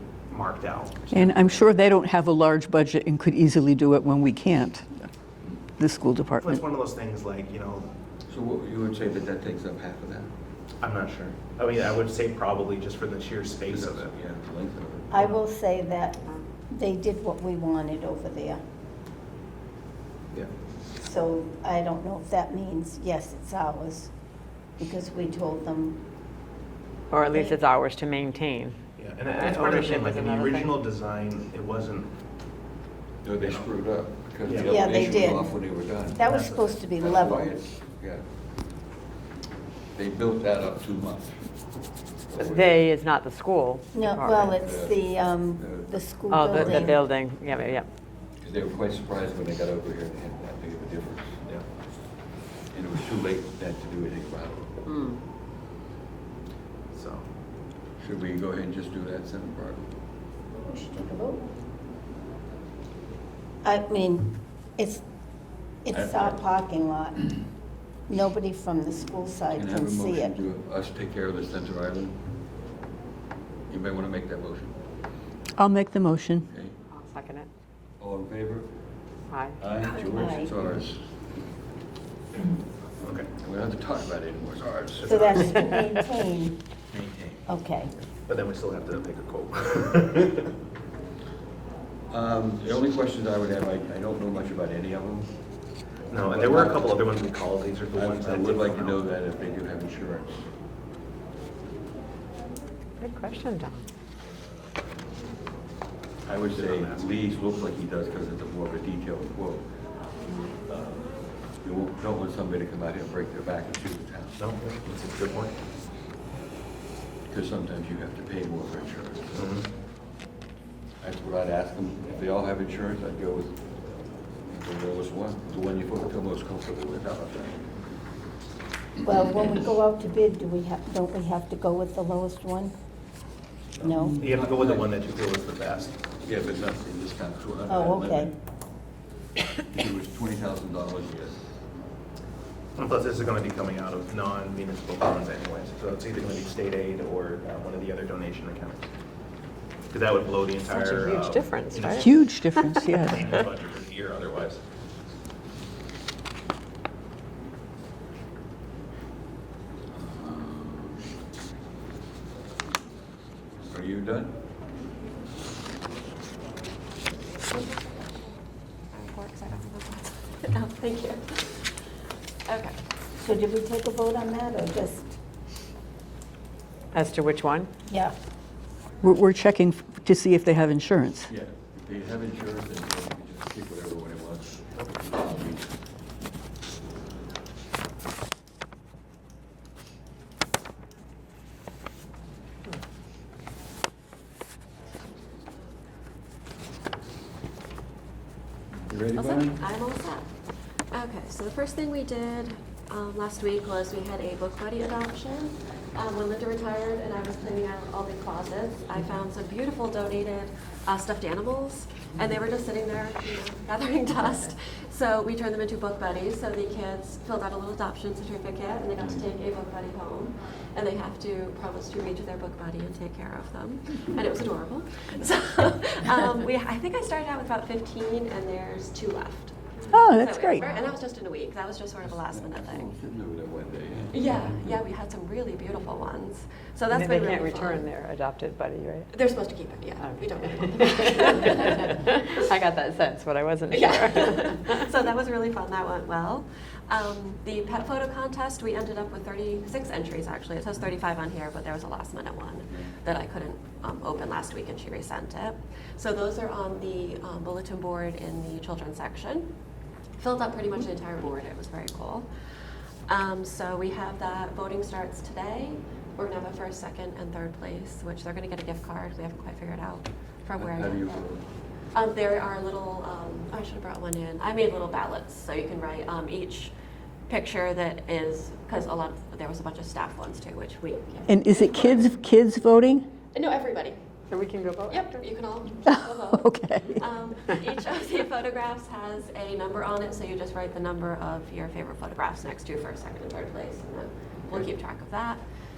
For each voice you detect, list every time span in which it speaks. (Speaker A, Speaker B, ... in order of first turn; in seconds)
Speaker A: 0.4-1.0, 6.4-7.8, 10.8-14.1, 29.0-32.1, 33.4-33.7, 34.4-35.3, 36.2-36.8, 56.9-57.2, 83.0-83.3, 84.9-85.7, 88.2-90.5, 96.1-99.0, 106.4-107.2, 114.4-115.5, 119.3-119.7, 134.2-135.9, 142.8-148.8, 149.9-152.4, 153.0-154.6, 199.2-199.6, 201.9-209.5, 210.9-212.4, 214.7-217.3, 218.0-219.2, 221.5-222.1, 223.4-224.0, 226.0-226.2, 227.9-228.2, 229.6-230.9, 241.2-242.1, 247.8-248.5, 264.4-265.6, 266.5-266.9, 276.0-276.5, 277.4-278.6, 281.0-282.0, 289.5-290.2, 291.1-292.0, 292.8-293.8
Speaker B: 1.1-5.1, 5.8-6.6, 75.6-76.5, 151.9-153.4, 179.0-181.3, 229.9-230.6, 281.3-283.1, 285.8-287.0
Speaker C: 8.3-10.3, 13.7-15.3, 33.2-36.2, 37.0-38.2, 39.9-41.5, 42.3-42.8, 44.5-47.0, 48.4-51.4, 52.7-54.7, 58.0-59.9, 65.9-66.4, 69.5-72.2, 73.7-74.7, 76.4-76.7, 78.0-78.7, 79.6-81.0, 83.4-85.2, 86.9-87.3, 92.1-95.3, 96.2-97.0, 97.9-100.5, 106.2-109.7, 111.6-114.5, 117.3-119.5, 121.0-123.6, 124.5-127.7, 133.8-134.9, 136.2-138.3, 139.7-141.5, 159.9-161.1, 163.7-164.3, 181.3-185.7, 198.9-199.7, 219.0-219.3, 232.0-234.8, 270.5-271.4
Speaker D: 15.1-18.6, 21.0-24.1, 24.8-26.0, 27.3-27.6, 34.6-37.6, 43.9-47.0, 60.6-61.4, 63.6-65.0, 65.8-67.4, 68.1-70.4, 80.0-80.6, 85.0-86.6, 87.5-87.9, 129.0-132.7, 133.8-134.2, 137.7-138.3, 173.2-175.2, 177.9-178.1
Speaker E: 27.1-30.8, 42.3-44.5, 46.3-47.9, 54.9-55.2, 76.9-77.5, 79.3-79.6, 85.4-85.9, 103.0-103.8, 150.6-153.2, 176.9-177.7, 236.9-239.2, 240.0-244.9, 284.3-285.2, 287.4-287.7
Speaker F: 168.9-171.6, 172.4-172.8, 199.6-200.2, 200.9-205.4, 206.0-229.6, 230.3-232.8, 234.1-237.8, 239.1-241.8, 243.7-259.5, 260.2-262.2, 263.1-271.1, 271.9-276.7, 277.3-281.7, 283.3-284.0, 284.9-286.4, 287.0-295.4